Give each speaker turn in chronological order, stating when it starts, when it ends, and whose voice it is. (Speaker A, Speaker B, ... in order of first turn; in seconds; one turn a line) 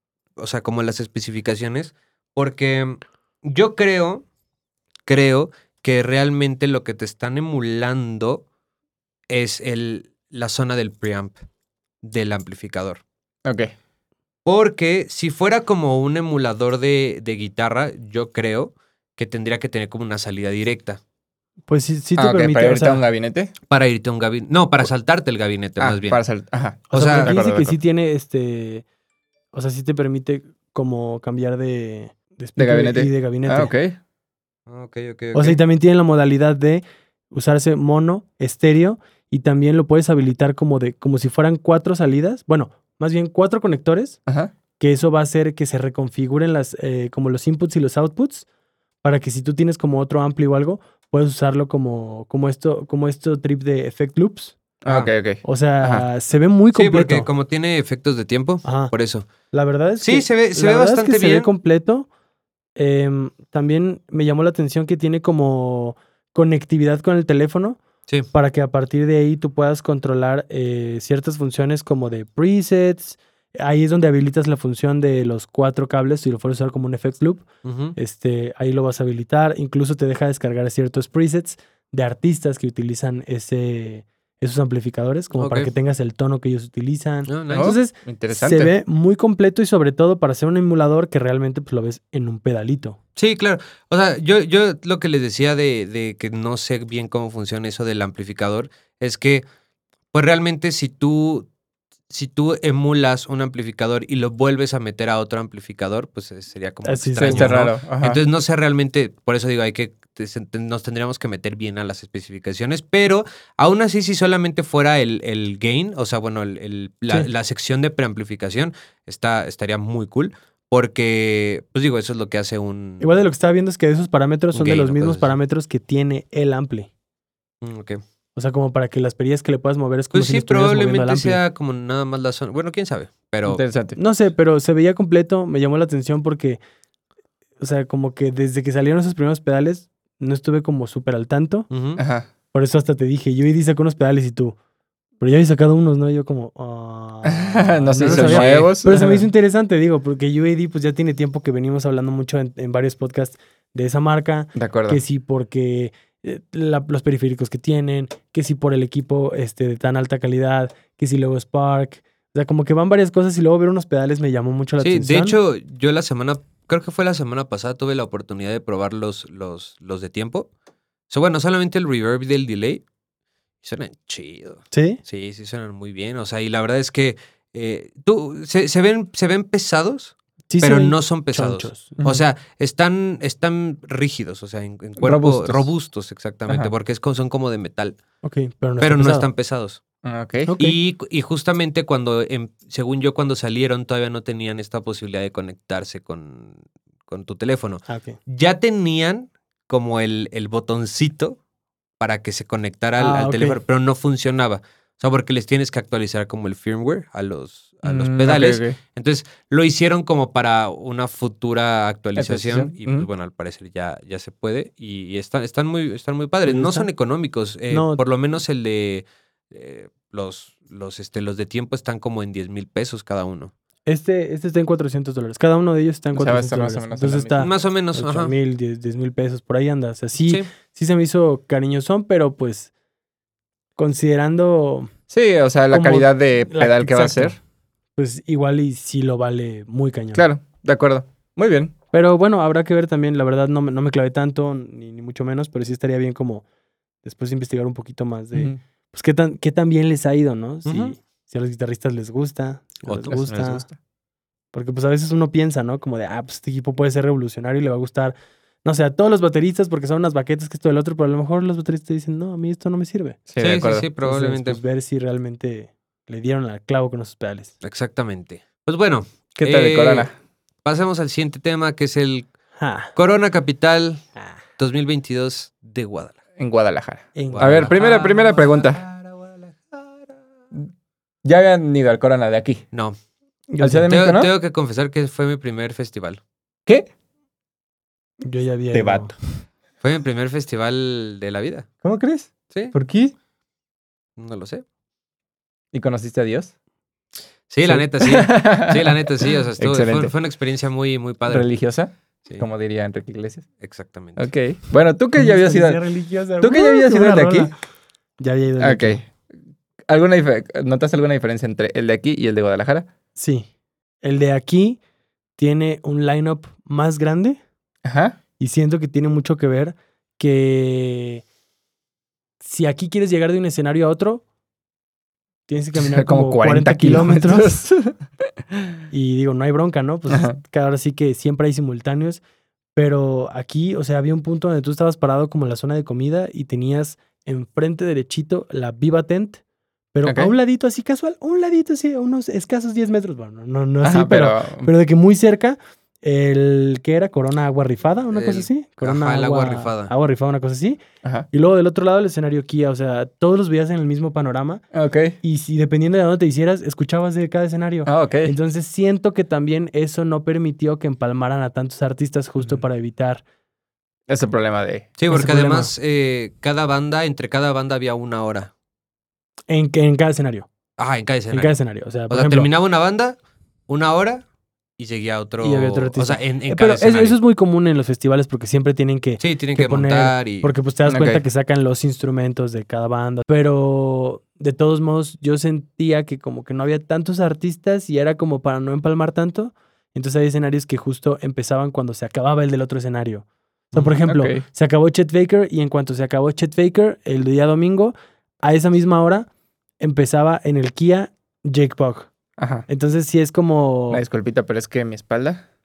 Speaker A: 0.4-4.2
Speaker A: 5.0-8.4
Speaker A: 9.3-11.4
Speaker A: 12.0-13.0
Speaker B: 13.4-13.7
Speaker A: 14.4-21.0
Speaker C: 21.7-23.0
Speaker B: 22.2-23.5
Speaker A: 23.7-26.2
Speaker B: 25.8-27.8
Speaker A: 26.9-27.3
Speaker C: 26.9-28.8
Speaker C: 29.5-33.7
Speaker B: 32.6-34.0
Speaker A: 34.7-35.6
Speaker C: 35.3-44.2
Speaker B: 44.3-44.5
Speaker C: 44.8-48.5
Speaker C: 49.0-54.5
Speaker B: 54.8-56.0
Speaker C: 55.4-57.3
Speaker A: 56.7-59.3
Speaker C: 58.6-58.9
Speaker C: 59.5-62.1
Speaker A: 60.0-61.5
Speaker C: 62.8-67.8
Speaker C: 68.3-77.4
Speaker A: 77.6-77.9
Speaker C: 78.0-93.0
Speaker A: 85.4-85.7
Speaker A: 87.3-87.7
Speaker B: 87.5-88.7
Speaker A: 93.2-99.4
Speaker A: 100.1-101.5
Speaker A: 102.1-123.1
Speaker C: 106.8-107.6
Speaker B: 107.2-108.2
Speaker C: 123.0-126.9
Speaker A: 124.5-125.3
Speaker A: 127.6-128.0
Speaker C: 128.3-131.4
Speaker A: 130.1-133.6
Speaker B: 133.5-134.0
Speaker C: 133.9-136.6
Speaker C: 137.6-141.7
Speaker A: 141.7-142.0
Speaker B: 142.0-142.3
Speaker C: 142.5-144.6
Speaker C: 145.2-165.4
Speaker B: 147.2-149.2
Speaker A: 147.9-148.7
Speaker B: 154.6-155.0
Speaker A: 164.8-170.5
Speaker A: 171.1-172.8
Speaker A: 173.6-188.0
Speaker C: 174.7-175.0
Speaker C: 180.5-182.0
Speaker B: 182.0-182.2
Speaker B: 185.0-185.7
Speaker C: 188.2-189.3
Speaker A: 188.8-189.8
Speaker B: 190.0-190.5
Speaker C: 190.5-190.8
Speaker A: 190.6-201.4
Speaker C: 197.9-198.2
Speaker A: 202.0-223.5
Speaker C: 203.0-203.6
Speaker B: 207.8-208.8
Speaker B: 212.2-213.1
Speaker C: 216.4-216.9
Speaker C: 217.7-218.0
Speaker C: 223.8-232.7
Speaker B: 226.1-227.5
Speaker A: 227.4-228.3
Speaker C: 233.8-234.9
Speaker B: 235.1-237.3
Speaker C: 235.7-237.4
Speaker C: 237.9-240.2
Speaker B: 240.1-241.7
Speaker C: 241.9-246.4
Speaker C: 247.0-253.7
Speaker A: 250.7-250.9
Speaker A: 252.8-253.2
Speaker B: 253.1-253.7
Speaker C: 254.5-263.2
Speaker B: 263.3-263.9
Speaker A: 263.4-264.6
Speaker C: 264.0-267.5
Speaker A: 267.6-270.1
Speaker B: 269.4-270.1
Speaker A: 270.6-272.3
Speaker C: 272.6-272.9
Speaker A: 272.9-274.0
Speaker A: 274.6-276.1
Speaker B: 276.4-278.8
Speaker C: 277.1-277.7
Speaker A: 277.3-280.1
Speaker B: 281.2-282.6
Speaker A: 282.7-283.0
Speaker C: 283.5-283.9
Speaker B: 283.6-284.3
Speaker A: 283.9-286.2
Speaker C: 288.2-289.1
Speaker B: 288.7-289.1
Speaker A: 289.8-291.7
Speaker B: 291.8-293.1
Speaker A: 294.2-294.6
Speaker B: 295.7-296.5
Speaker A: 297.5-301.5
Speaker B: 297.7-299.0
Speaker B: 299.6-300.1
Speaker B: 301.3-303.4
Speaker A: 303.6-304.3
Speaker B: 304.2-305.8
Speaker C: 305.1-307.5
Speaker B: 306.4-307.5
Speaker C: 308.2-309.0
Speaker B: 308.6-309.1
Speaker B: 309.9-312.9
Speaker C: 313.1-313.5
Speaker C: 314.0-314.8
Speaker C: 315.4-317.4
Speaker B: 317.8-318.2
Speaker C: 318.4-321.2
Speaker C: 322.4-324.2
Speaker C: 325.5-327.6
Speaker B: 325.8-328.0
Speaker C: 328.9-332.2
Speaker B: 330.1-330.4
Speaker C: 332.7-339.4
Speaker C: 339.9-350.8
Speaker B: 340.0-340.3
Speaker B: 343.8-344.7
Speaker A: 348.1-349.9
Speaker C: 351.3-354.6
Speaker B: 354.7-355.2
Speaker C: 355.2-363.2
Speaker B: 357.9-358.3
Speaker B: 364.1-364.9
Speaker A: 365.0-368.5
Speaker C: 365.1-365.7
Speaker C: 369.5-370.5
Speaker A: 370.8-371.5
Speaker C: 371.3-372.5
Speaker A: 372.1-374.2
Speaker A: 374.8-377.2
Speaker C: 375.4-399.3
Speaker A: 379.2-380.5
Speaker B: 380.9-381.2
Speaker B: 393.8-394.4
Speaker C: 399.8-402.1
Speaker B: 402.4-402.6
Speaker C: 402.7-404.0
Speaker B: 403.9-405.5